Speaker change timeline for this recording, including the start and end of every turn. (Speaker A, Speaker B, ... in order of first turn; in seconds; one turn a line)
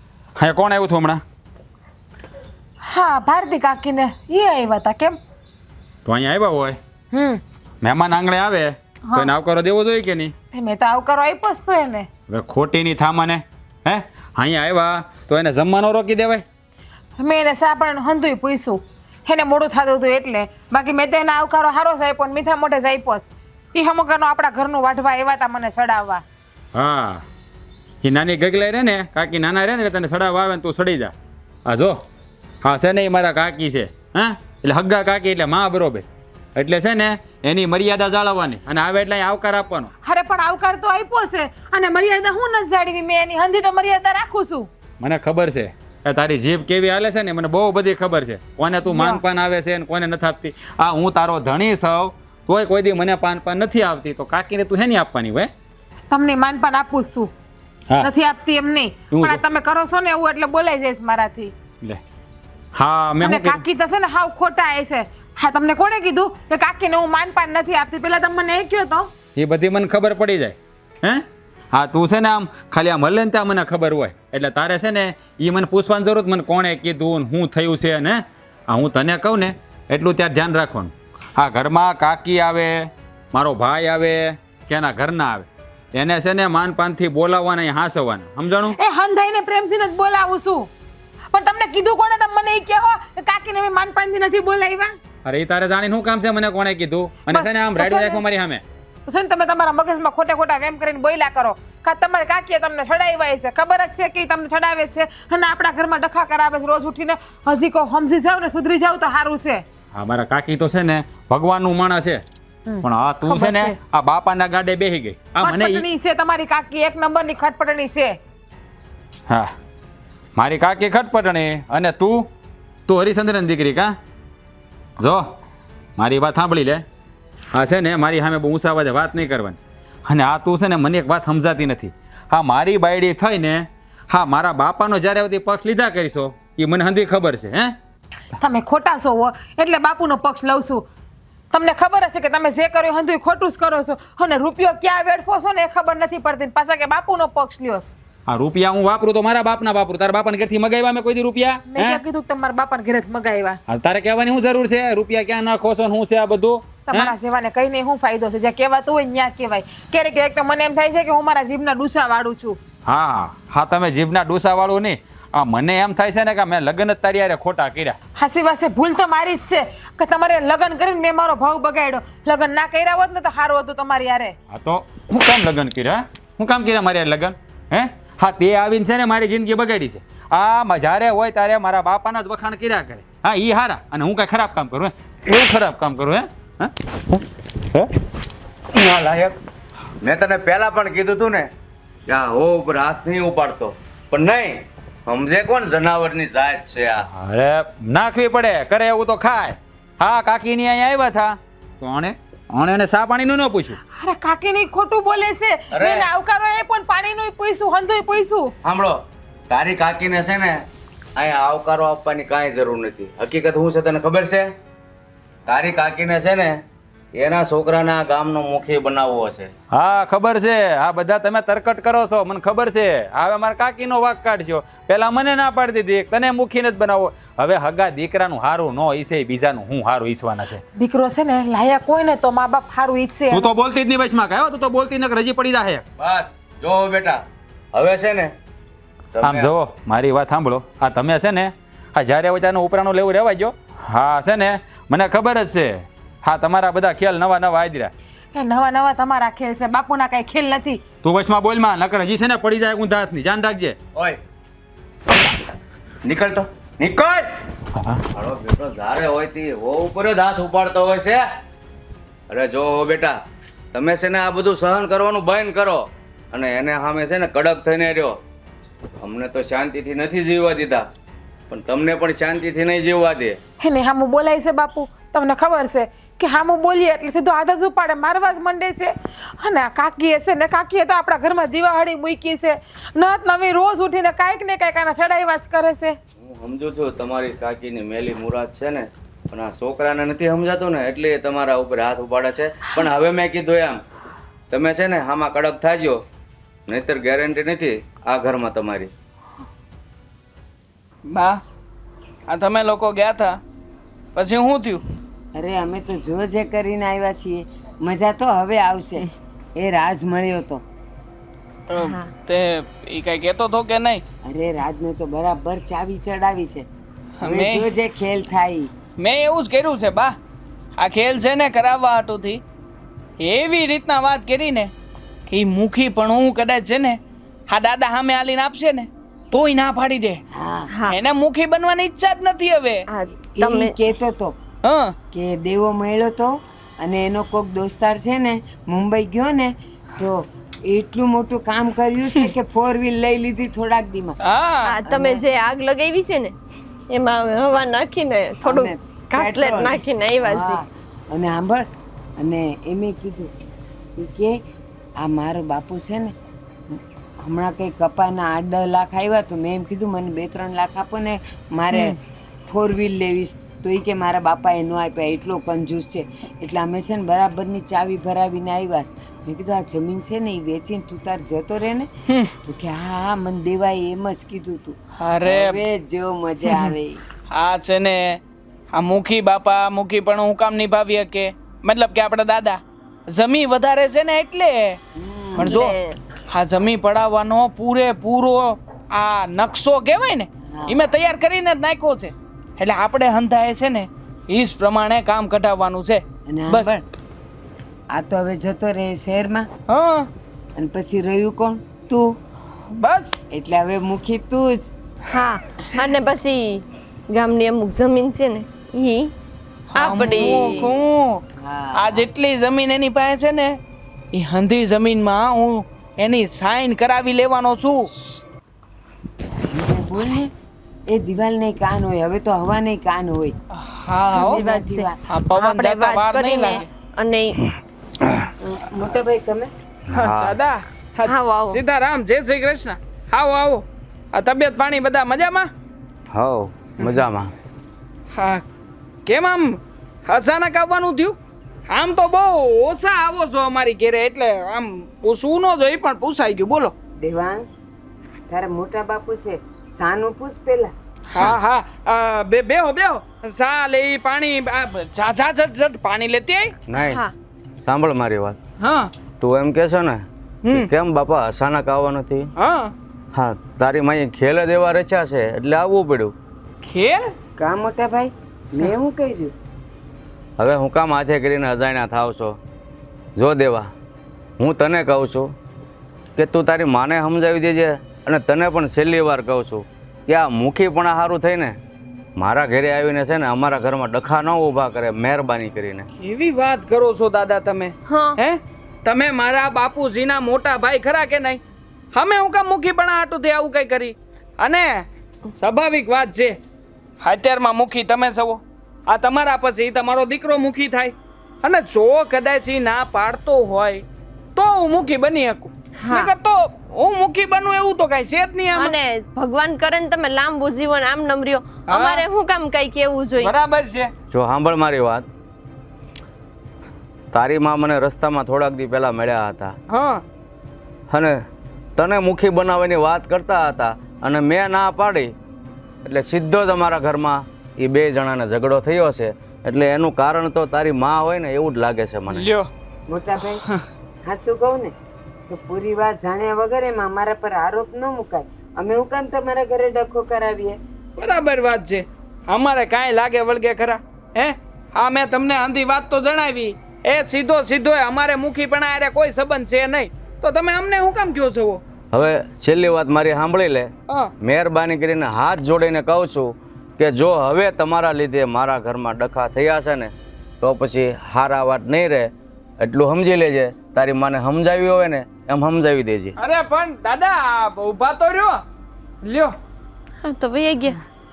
Speaker A: 0.4-1.2
Speaker B: 2.8-5.2
Speaker A: 6.0-6.8
Speaker B: 7.1-7.4
Speaker A: 7.8-10.3
Speaker B: 9.1-9.3
Speaker B: 10.5-12.1
Speaker A: 12.3-16.4
Speaker B: 17.2-26.2
Speaker A: 26.7-27.2
Speaker A: 28.0-31.1
Speaker A: 31.6-32.0
Speaker A: 32.6-39.9
Speaker B: 40.0-44.7
Speaker A: 45.0-55.5
Speaker B: 48.9-49.2
Speaker B: 56.1-57.3
Speaker B: 58.0-61.5
Speaker A: 59.1-59.4
Speaker A: 62.7-63.6
Speaker B: 63.2-69.1
Speaker A: 69.3-88.8
Speaker B: 88.7-90.7
Speaker B: 91.3-94.9
Speaker A: 95.2-98.6
Speaker B: 97.3-98.2
Speaker B: 99.0-109.6
Speaker A: 109.9-112.2
Speaker B: 112.7-113.8
Speaker A: 112.8-115.8
Speaker B: 115.4-118.2
Speaker A: 120.3-122.3
Speaker A: 122.9-124.0
Speaker A: 125.0-125.2
Speaker A: 126.0-126.8
Speaker A: 127.5-137.8
Speaker B: 138.4-140.8
Speaker B: 141.5-147.9
Speaker A: 148.3-152.0
Speaker B: 151.7-153.6
Speaker A: 153.7-157.1
Speaker B: 156.9-162.6
Speaker A: 162.8-168.0
Speaker B: 168.2-174.3
Speaker A: 174.5-187.9
Speaker C: 188.7-189.4
Speaker C: 190.0-191.5
Speaker C: 192.1-197.1
Speaker A: 197.1-203.8
Speaker B: 203.9-208.5
Speaker C: 205.7-206.1
Speaker C: 208.6-210.6
Speaker C: 211.2-214.5
Speaker C: 215.4-216.6
Speaker C: 217.1-219.5
Speaker A: 219.7-230.6
Speaker B: 230.8-233.5
Speaker A: 233.3-235.8
Speaker C: 236.0-237.2
Speaker C: 237.7-238.3
Speaker C: 239.1-239.5
Speaker A: 239.2-247.9
Speaker B: 248.3-250.8
Speaker A: 251.0-253.8
Speaker C: 256.0-257.2
Speaker A: 257.7-258.0
Speaker C: 258.1-261.2
Speaker C: 262.3-263.2
Speaker C: 263.7-268.1
Speaker C: 269.0-270.9
Speaker C: 271.5-273.4
Speaker B: 273.6-286.0
Speaker C: 286.2-293.8
Speaker C: 294.5-296.0
Speaker C: 296.7-298.9
Speaker D: 301.1-301.4
Speaker D: 302.3-303.4
Speaker D: 304.1-304.8
Speaker E: 305.3-310.6
Speaker D: 311.7-314.0
Speaker F: 311.7-312.1
Speaker E: 314.2-316.6
Speaker D: 317.2-317.7
Speaker E: 317.2-318.7
Speaker D: 319.0-320.1
Speaker D: 320.8-322.4
Speaker D: 323.2-324.7
Speaker D: 325.3-330.2
Speaker E: 330.3-330.7
Speaker F: 330.7-330.9
Speaker D: 330.9-332.9
Speaker F: 332.9-333.8
Speaker E: 333.2-334.4
Speaker D: 334.6-334.9
Speaker E: 335.1-344.2
Speaker D: 344.2-344.8
Speaker F: 344.6-346.3
Speaker E: 344.8-345.3
Speaker F: 346.9-350.6
Speaker E: 348.4-351.7
Speaker E: 352.2-353.3
Speaker E: 354.0-354.4
Speaker E: 355.0-356.1
Speaker E: 357.2-371.9
Speaker E: 372.4-377.0
Speaker D: 375.0-375.6
Speaker D: 377.3-378.2
Speaker D: 378.7-384.8
Speaker E: 384.9-385.7
Speaker D: 385.4-385.8
Speaker F: 385.4-386.0
Speaker D: 386.3-396.7
Speaker E: 390.5-390.9
Speaker E: 396.3-396.8
Speaker E: 397.9-399.5
Speaker D: 399.7-400.1
Speaker E: 400.6-402.2
Speaker D: 402.7-403.1
Speaker E: 403.3-404.7
Speaker F: 405.1-409.1
Speaker D: 409.7-411.2
Speaker F: 409.7-410.7
Speaker E: 409.9-410.8
Speaker E: 411.4-412.1
Speaker D: 411.8-413.6
Speaker D: 414.1-417.9
Speaker E: 419.4-420.3
Speaker E: 420.9-423.3
Speaker D: 423.5-424.4
Speaker E: 424.1-425.0
Speaker F: 424.1-427.4
Speaker D: 425.0-426.7
Speaker E: 428.4-429.5
Speaker C: 429.9-430.4
Speaker D: 429.9-435.5
Speaker F: 431.0-431.6
Speaker C: 436.1-437.3
Speaker D: 438.1-438.4
Speaker D: 439.1-446.7
Speaker E: 447.0-447.5
Speaker E: 448.3-450.7
Speaker D: 451.1-456.5
Speaker C: 456.7-457.0
Speaker F: 456.7-457.1
Speaker C: 457.6-458.4
Speaker D: 458.6-458.9
Speaker C: 459.2-462.3
Speaker D: 460.4-460.7
Speaker D: 462.4-462.7
Speaker C: 463.1-466.1
Speaker D: 466.6-467.1
Speaker E: 467.4-469.3
Speaker C: 470.4-472.4
Speaker C: 473.1-473.7
Speaker C: 474.4-475.3
Speaker C: 476.1-481.6
Speaker C: 482.1-485.9
Speaker D: 486.0-491.4
Speaker F: 487.9-488.2
Speaker D: 491.9-494.9
Speaker D: 495.4-496.4
Speaker D: 497.0-503.8
Speaker D: 504.4-508.7
Speaker F: 505.8-506.1
Speaker F: 508.5-513.3
Speaker D: 511.7-512.1
Speaker D: 513.2-513.9
Speaker C: 514.1-515.1
Speaker C: 517.1-519.5
Speaker D: 519.7-520.0
Speaker C: 520.9-521.1
Speaker C: 521.8-525.1
Speaker C: 525.8-532.3
Speaker D: 532.1-532.5
Speaker E: 532.9-533.4
Speaker E: 534.0-534.7
Speaker E: 535.3-540.6
Speaker D: 541.0-551.6
Speaker C: 551.9-566.1
Speaker D: 566.2-568.4
Speaker D: 569.0-569.3
Speaker F: 570.0-570.8